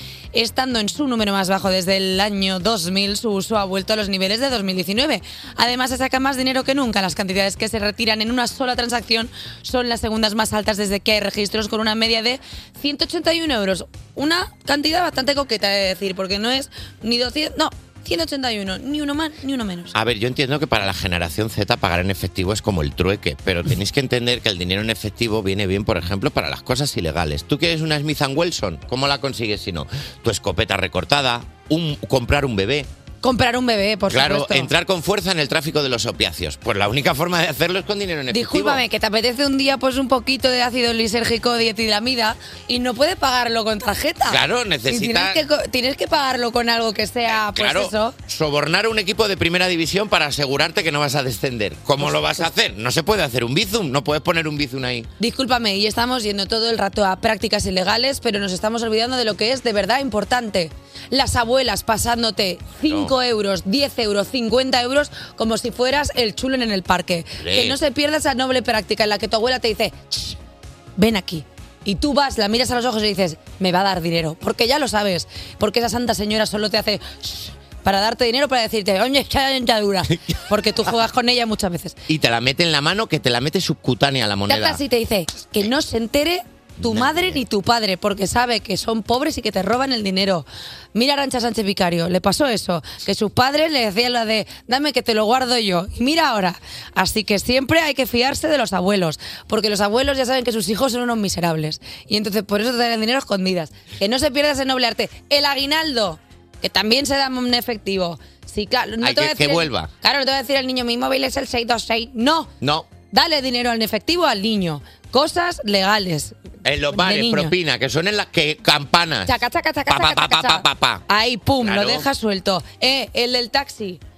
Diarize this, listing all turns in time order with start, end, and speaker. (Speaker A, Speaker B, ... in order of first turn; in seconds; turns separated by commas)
Speaker A: 0.3-19.9, Speaker B: 19.9-32.9, Speaker A: 33.2-34.7, Speaker B: 34.1-38.8, Speaker A: 38.3-48.2, Speaker B: 44.3-45.4, Speaker B: 47.3-55.1, Speaker A: 52.0-52.4, Speaker A: 55.2-70.4, Speaker B: 62.8-63.1, Speaker B: 67.4-67.8, Speaker A: 71.0-82.0, Speaker B: 82.1-84.8, Speaker A: 84.5-112.5, Speaker B: 86.8-87.4, Speaker B: 109.0-109.9, Speaker B: 112.6-112.9, Speaker A: 113.1-116.4, Speaker B: 116.6-119.3, Speaker A: 116.9-117.5, Speaker A: 119.3-124.0, Speaker B: 119.9-121.0, Speaker B: 121.6-122.1